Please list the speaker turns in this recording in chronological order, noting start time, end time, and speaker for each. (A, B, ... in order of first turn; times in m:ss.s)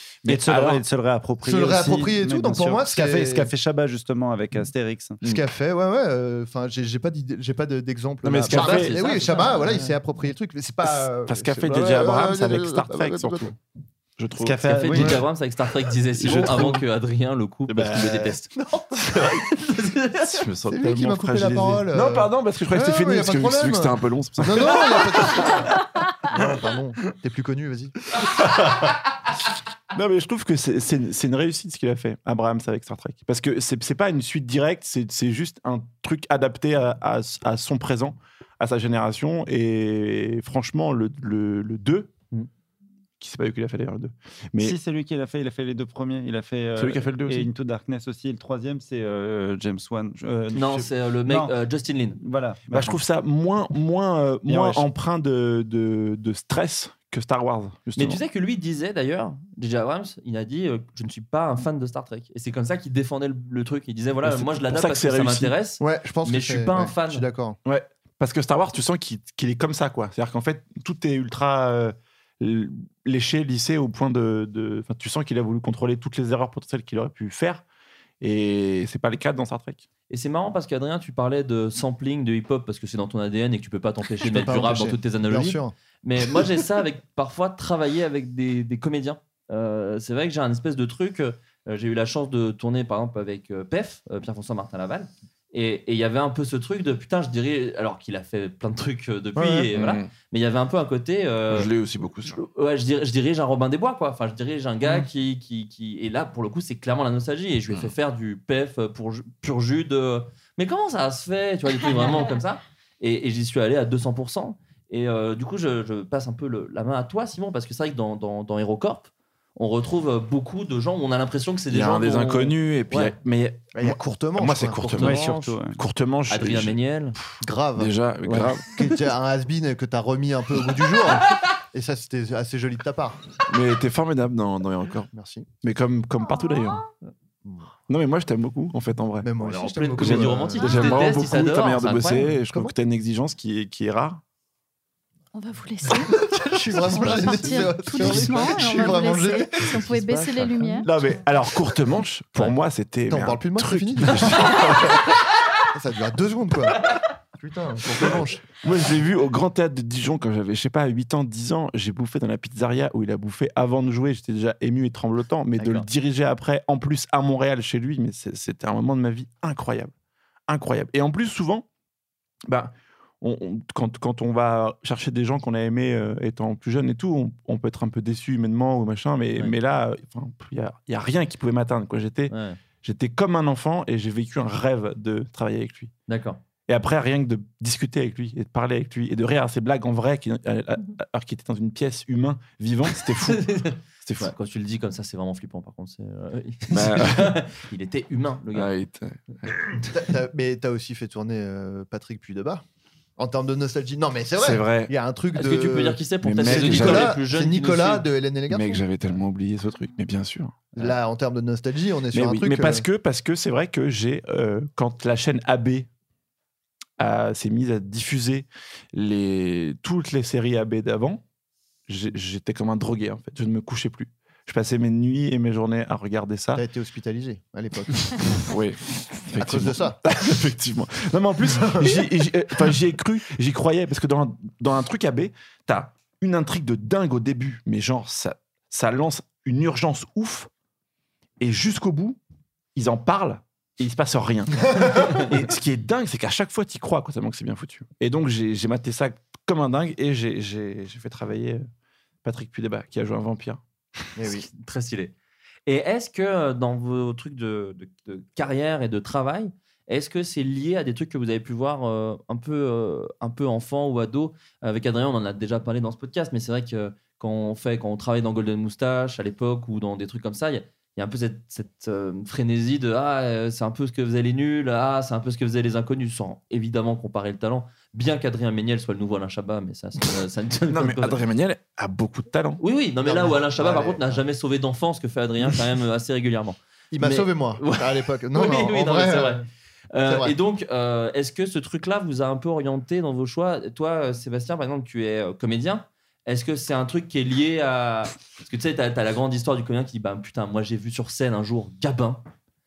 0:00.2-0:00.8 A
0:00.3-0:05.2 B
0:01.4-0:03.5 C
0:05.2-0:13.6 C
0:08.2-0:09.3 A
0:08.5-0:09.9 D
0:10.9-0:13.5 A
0:14.2-0:15.1 A
0:14.4-0:15.2 B
0:14.6-0:18.5 D
0:16.2-0:16.8 A
0:17.7-0:18.4 A
0:18.6-0:19.2 C
0:19.2-0:20.4 D
0:20.2-0:25.5 A
0:20.7-0:27.9 C
0:28.4-0:28.9 A
0:29.9-0:42.1 A
0:43.2-0:44.8 A
0:44.6-0:51.5 B
0:46.8-0:47.5 A
0:50.5-0:52.2 D
0:52.2-0:53.0 B
0:52.7-0:58.2 A
0:54.5-0:54.9 B
0:58.0-1:07.3 D
1:04.2-1:05.6 A
1:05.8-1:07.6 C
1:07.6-1:17.6 A
1:18.2-1:19.8 A
1:20.1-1:41.7 D
1:24.2-1:25.7 C
1:39.4-1:39.7 C
1:39.7-1:40.1 A
1:41.5-1:42.4 A
1:42.3-2:03.1 D
2:01.7-2:06.8 A
2:03.7-2:05.1 C
2:04.9-2:05.6 D
2:05.0-2:05.8 B
2:06.3-2:07.2 D
2:07.4-2:13.3 C
2:07.8-2:08.7 A
2:08.2-2:08.5 D
2:13.5-2:15.1 A
2:15.1-2:15.5 C
2:15.6-2:16.9 A
2:16.2-2:16.8 E
2:17.4-2:17.7 C
2:17.9-2:19.4 A
2:19.2-2:21.1 C
2:19.4-2:22.4 D
2:19.9-2:24.2 A
2:20.6-2:21.0 E
2:22.5-2:22.7 C
2:25.3-2:30.9 E
2:26.1-2:31.0 C
2:30.8-2:35.0 A
2:33.1-2:35.0 C
2:35.7-2:38.6 C
2:38.6-2:49.9 A
2:45.6-2:45.8 D
2:50.5-2:51.6 A
2:52.5-3:05.9 A
3:02.3-3:02.6 D
3:06.1-3:06.4 D
3:06.7-3:13.5 A
3:13.2-3:18.7 D
3:14.0-3:14.3 A
3:16.7-3:17.4 A
3:18.5-3:19.9 A
3:19.9-3:22.6 C
3:23.2-3:28.9 C
3:24.4-3:24.9 A
3:25.3-3:28.1 D
3:26.2-3:27.2 A
3:28.5-3:30.9 A
3:30.7-3:32.9 C
3:32.1-3:35.9 A
3:37.0-3:41.2 A
3:41.9-3:46.6 A
3:46.5-3:48.4 C
3:48.5-4:00.5 A
3:49.4-3:50.0 C
3:51.5-3:52.0 C
4:01.4-4:02.2 A
4:02.8-4:11.7 A
4:04.7-4:05.2 C
4:12.2-4:14.2 A
4:14.2-4:14.5 C
4:14.3-4:15.1 D
4:15.7-4:41.2 D
4:40.7-4:42.6 A
4:42.6-5:02.2 D
4:43.0-4:44.2 C
4:46.9-4:49.4 C
4:50.1-4:50.3 C